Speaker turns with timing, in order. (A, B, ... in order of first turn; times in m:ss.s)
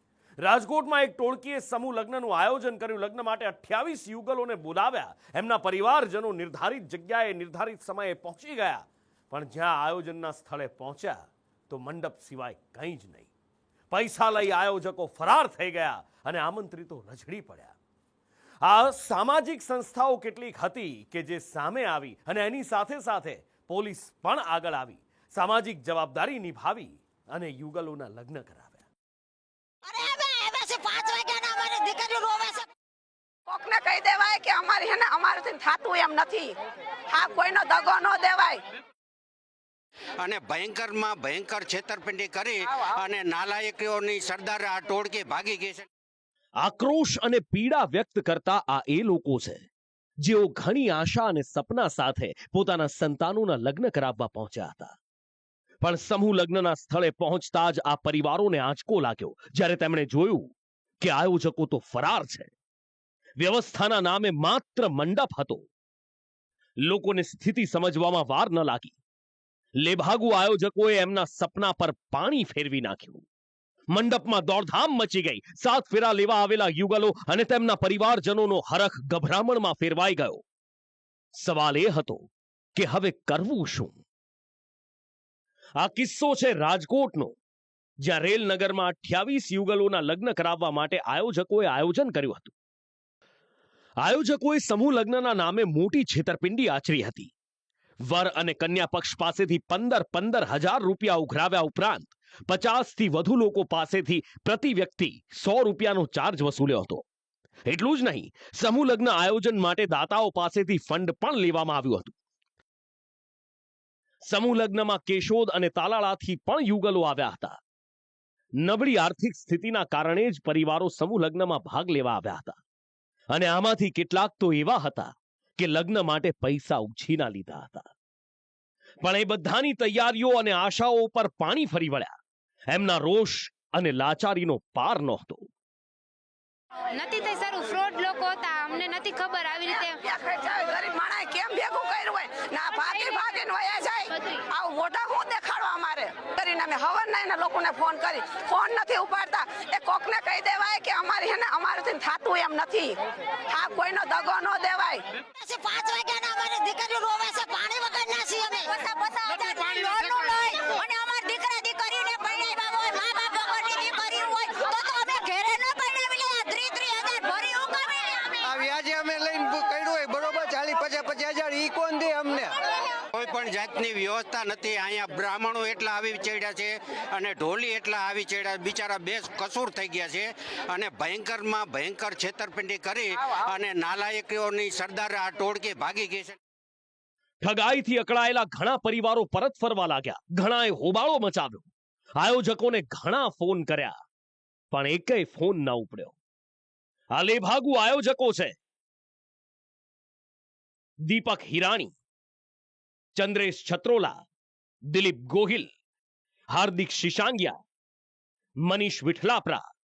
0:00.4-0:13.3 A
0:13.9-0:17.8 A
0:18.6-0:28.8 A
0:29.8-0:32.7 B
0:33.5-0:36.6 C
0:37.1-0:38.6 C
0:40.2-0:45.8 D
0:46.6-0:49.6 A
0:50.2-0:55.0 A
0:55.8-1:02.5 A
1:03.4-1:05.7 A
1:06.8-1:09.0 A
1:09.8-1:13.2 A
1:13.9-1:20.4 A
1:21.4-1:24.0 A
1:25.8-1:27.3 A
1:28.0-1:32.5 A
1:34.0-1:37.3 A
1:38.0-1:47.0 A
1:47.7-1:52.2 A
1:54.3-1:57.6 A
1:58.6-2:02.6 A
2:03.3-2:07.9 A
2:09.0-2:12.2 A
2:12.7-2:15.5 A
2:16.9-2:20.0 E
2:19.7-2:35.0 C
2:35.3-2:48.4 B
2:48.4-2:52.6 F
2:53.1-3:06.4 D
3:07.4-3:14.0 A
3:14.7-3:16.2 A
3:17.1-3:18.6 A
3:21.0-3:21.9 A
3:23.2-3:24.1 A
3:24.9-3:25.7 A
3:26.5-3:27.6 A
3:28.6-3:29.6 A